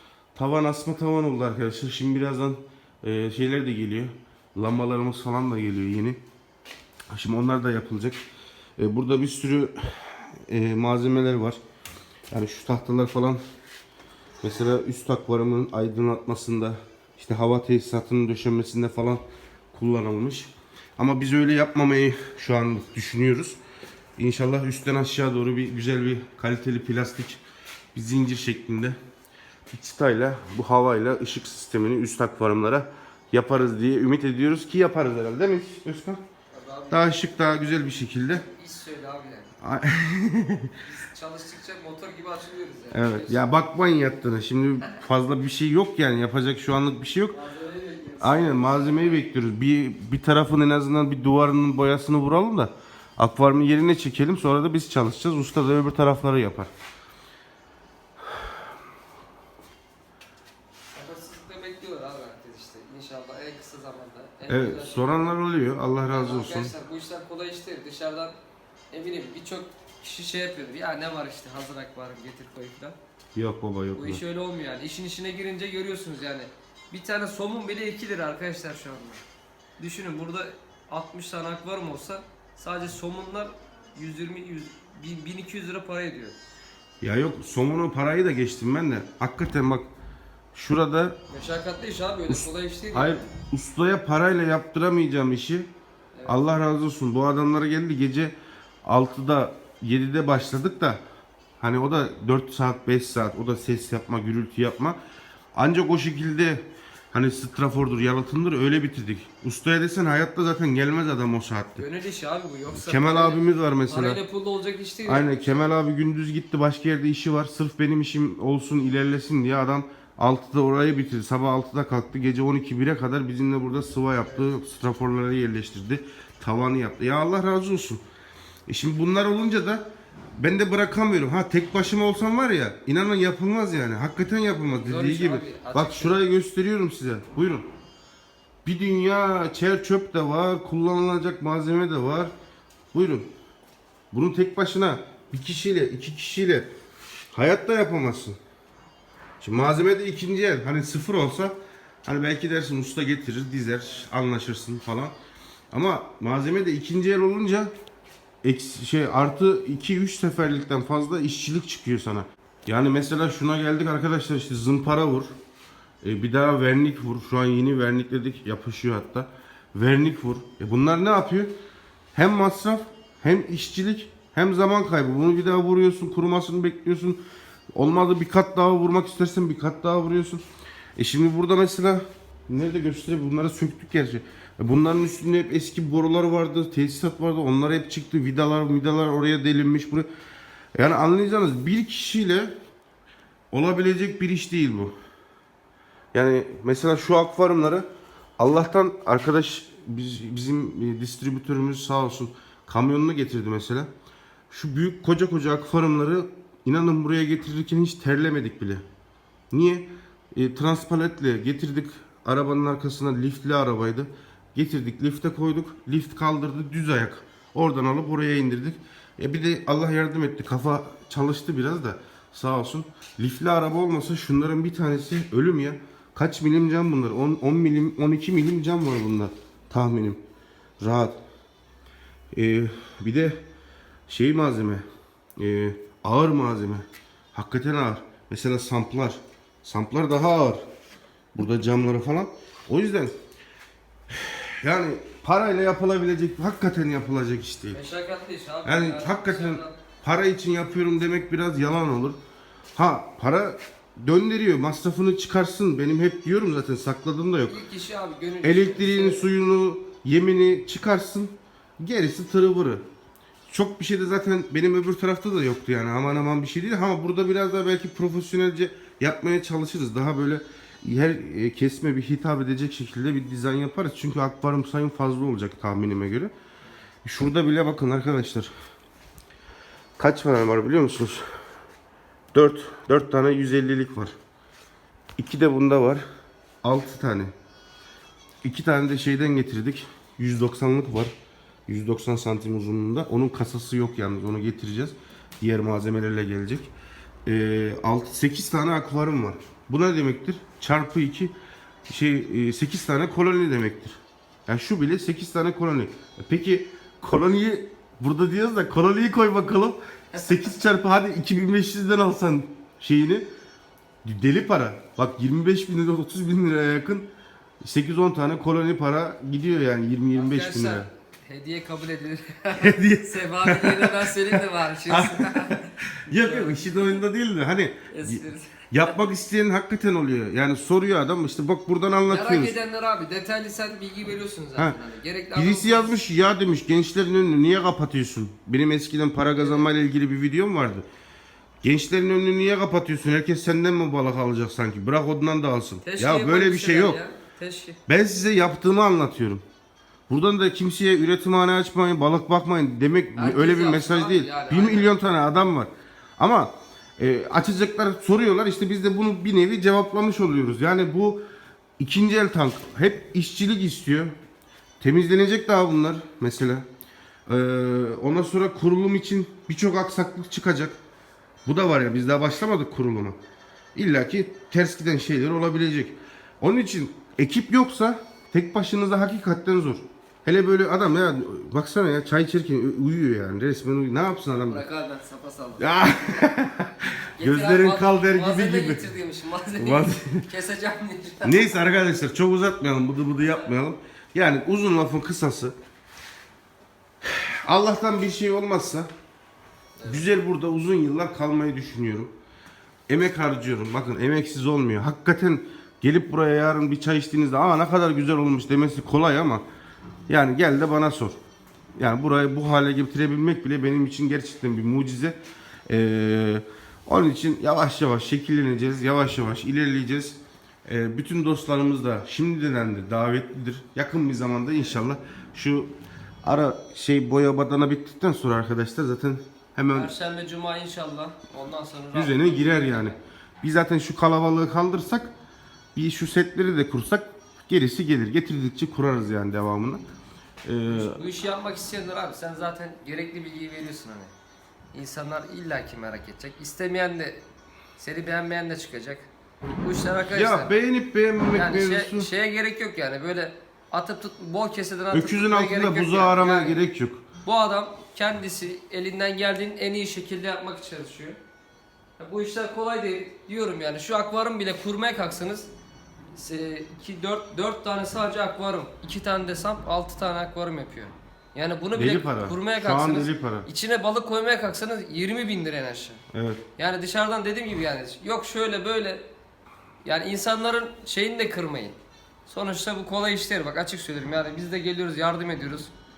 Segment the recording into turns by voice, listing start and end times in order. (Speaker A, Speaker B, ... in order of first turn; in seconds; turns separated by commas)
Speaker A: 0.3-6.2, Speaker A: 7.1-8.2, Speaker A: 8.8-11.6, Speaker A: 12.3-13.4, Speaker A: 14.4-19.2, Speaker A: 19.7-23.6, Speaker A: 24.2-27.4, Speaker A: 27.9-28.9, Speaker A: 29.7-36.2, Speaker B: 36.5-39.5, Speaker A: 36.9-38.4, Speaker A: 39.6-40.8, Speaker B: 40.8-43.4, Speaker A: 42.9-47.4, Speaker B: 47.3-49.3, Speaker A: 48.2-56.7, Speaker B: 60.9-65.3, Speaker A: 64.5-66.7, Speaker B: 66.1-68.4, Speaker B: 68.9-73.0, Speaker A: 73.3-74.2, Speaker B: 73.9-79.2, Speaker B: 79.8-86.4, Speaker A: 87.0-89.9, Speaker A: 90.5-91.2, Speaker B: 91.3-93.2, Speaker A: 92.3-95.7, Speaker B: 96.2-96.5, Speaker A: 96.2-101.0, Speaker A: 101.6-105.0, Speaker A: 105.5-111.8, Speaker B: 111.8-115.7, Speaker A: 112.7-114.2, Speaker A: 115.1-128.0, Speaker A: 128.7-129.9, Speaker A: 130.4-137.7, Speaker B: 134.8-136.2, Speaker A: 138.6-142.3, Speaker A: 142.9-143.3, Speaker A: 144.1-146.7, Speaker A: 147.3-148.4, Speaker A: 149.4-155.1, Speaker A: 155.7-157.7, Speaker A: 158.4-165.3, Speaker A: 166.0-171.5, Speaker A: 172.1-177.2, Speaker A: 177.7-180.4, Speaker A: 181.0-190.1, Speaker A: 190.7-192.5, Speaker A: 193.5-194.9, Speaker A: 196.1-197.9, Speaker A: 198.4-203.9, Speaker A: 204.5-208.8, Speaker A: 209.5-230.2, Speaker A: 230.8-231.2, Speaker A: 232.3-233.4, Speaker A: 234.1-234.8, Speaker A: 235.4-240.6, Speaker A: 241.3-243.1, Speaker A: 244.1-247.8, Speaker B: 247.7-249.8, Speaker A: 248.6-252.2, Speaker A: 252.7-257.6, Speaker B: 257.5-259.3, Speaker A: 258.4-262.8, Speaker A: 263.5-276.3, Speaker A: 277.0-278.5, Speaker A: 280.0-281.2, Speaker A: 282.3-284.1, Speaker A: 285.2-286.0, Speaker A: 286.6-287.3, Speaker A: 288.4-291.1, Speaker A: 291.7-296.7, Speaker A: 297.2-301.3, Speaker A: 301.9-313.2, Speaker A: 314.0-317.1, Speaker A: 317.6-320.9, Speaker B: 320.1-326.8, Speaker A: 322.6-332.6, Speaker B: 327.9-328.9, Speaker B: 332.1-336.0, Speaker A: 335.3-340.9, Speaker B: 339.4-339.7, Speaker A: 341.6-347.0, Speaker B: 345.8-347.8, Speaker A: 347.9-349.4, Speaker A: 350.1-361.2, Speaker B: 353.2-354.9, Speaker A: 361.8-364.1, Speaker A: 364.8-366.6, Speaker A: 367.3-370.8, Speaker A: 371.4-373.2, Speaker A: 373.7-384.6, Speaker B: 384.5-386.2, Speaker A: 385.6-388.9, Speaker B: 387.2-391.5, Speaker A: 389.6-390.3, Speaker A: 391.2-395.6, Speaker A: 397.0-398.9, Speaker B: 399.8-400.1, Speaker A: 399.8-402.1, Speaker A: 402.9-409.4, Speaker A: 410.1-411.2, Speaker A: 411.8-415.2, Speaker A: 415.7-429.9, Speaker B: 429.7-433.0, Speaker A: 431.9-435.1, Speaker A: 435.7-439.8, Speaker A: 440.4-441.0, Speaker B: 440.7-444.1, Speaker B: 444.7-447.2, Speaker B: 447.8-449.1, Speaker B: 449.6-450.6, Speaker A: 450.1-452.1, Speaker B: 451.3-456.6, Speaker A: 454.9-457.1, Speaker B: 457.2-461.2, Speaker B: 462.0-465.5, Speaker B: 466.1-476.0, Speaker A: 471.7-473.5, Speaker A: 476.1-476.4, Speaker B: 476.6-479.1, Speaker B: 479.8-485.7